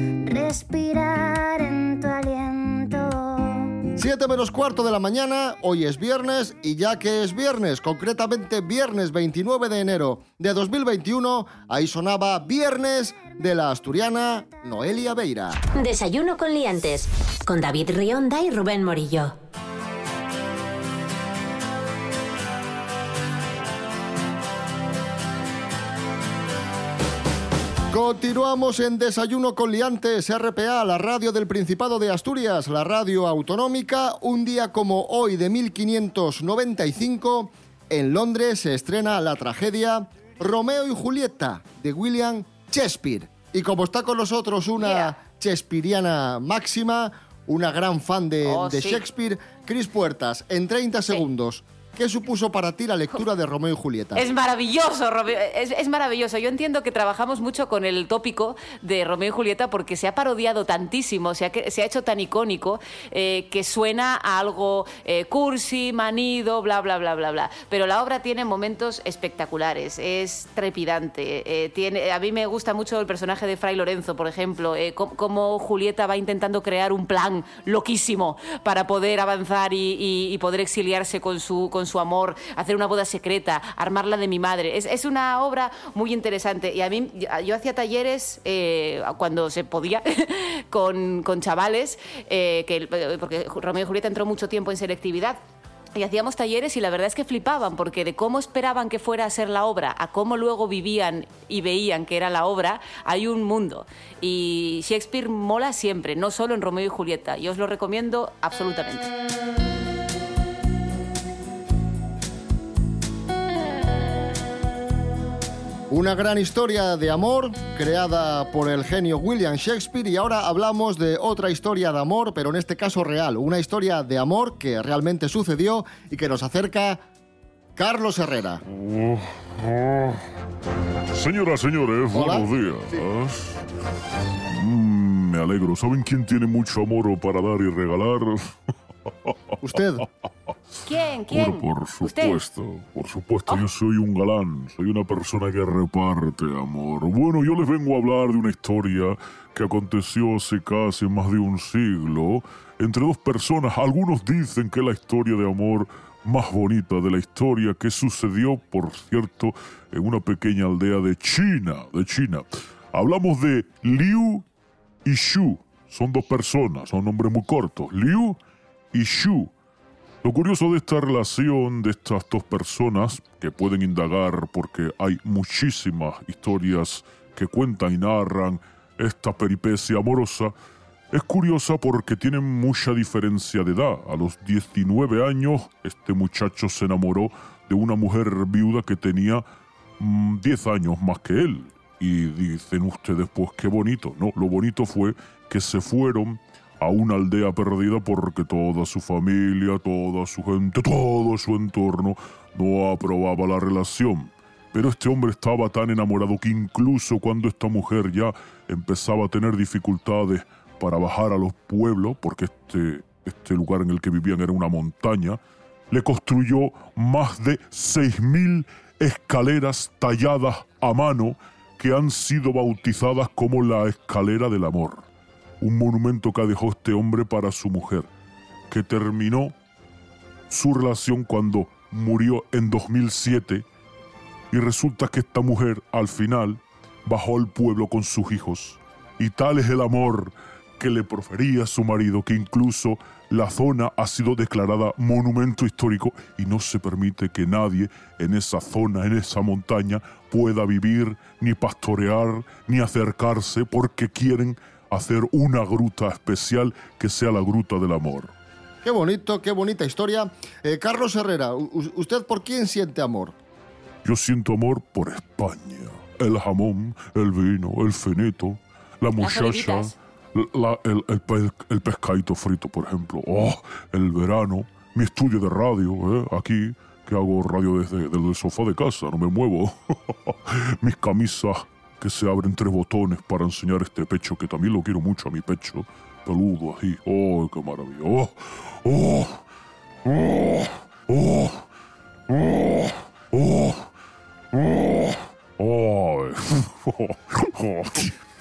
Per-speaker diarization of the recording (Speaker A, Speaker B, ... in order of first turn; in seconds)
Speaker A: 0.2-3.8
Speaker B: 4.0-15.6, 27.9-54.3, 115.9-127.0, 127.8-128.6, 132.1-133.0, 139.6-140.0, 258.8-263.4
Speaker C: 15.8-19.4
Speaker D: 44.8-45.1, 48.5-49.0, 54.1-95.4, 96.0-109.0, 140.9-142.4, 269.2-269.9
Speaker E: 128.7-130.2, 131.1-133.6, 134.5-138.5, 141.3-164.4, 165.1-168.4, 168.9-169.5, 170.2-180.5, 181.1-189.4, 190.0-215.4, 215.9-225.0, 225.6-228.1, 228.7-229.5, 230.5-233.7, 234.5-258.3, 264.0-289.4, 290.1-291.6, 292.3-293.9, 294.5-298.1